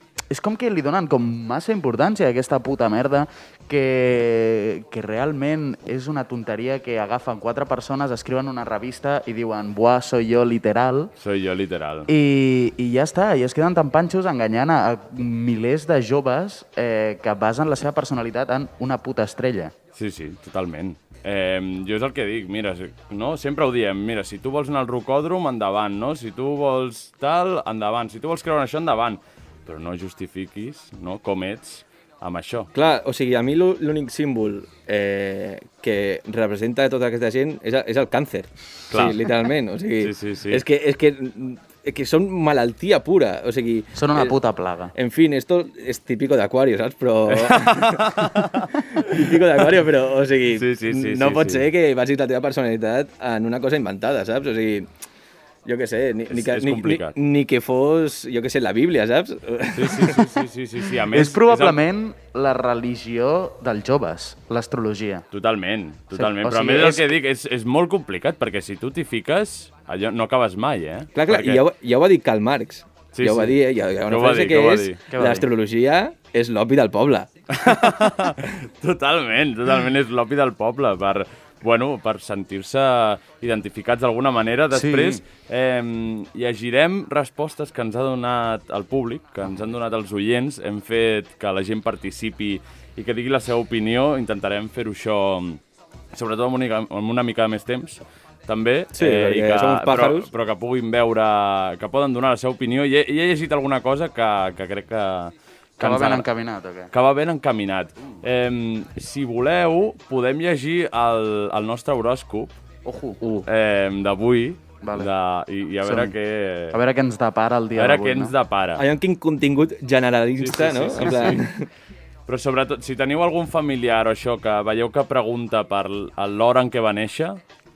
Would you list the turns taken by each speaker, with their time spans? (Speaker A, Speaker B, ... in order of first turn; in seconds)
Speaker A: 0.3-11.1, 12.1-19.7, 43.9-44.9, 61.1-65.2, 66.1-67.1, 75.1-75.4, 84.7-85.2, 105.8-106.9, 112.8-113.2, 114.8-115.1, 115.8-116.1, 116.7-118.3
Speaker B: 11.2-12.1, 19.9-32.7, 38.9-39.2, 40.0-40.6, 47.3-49.2, 50.5-51.7, 56.3-57.1, 59.7-61.8, 65.3-71.6, 73.1-73.6, 74.1-75.0, 77.5-95.6, 96.1-106.3, 106.9-112.5, 113.5-116.8, 117.8-118.8, 120.4-121.5, 122.3-127.4
Speaker C: 32.7-44.4, 44.9-54.9, 55.6-60.4, 71.1-77.3, 98.9-100.3, 113.2-113.5, 118.8-121.7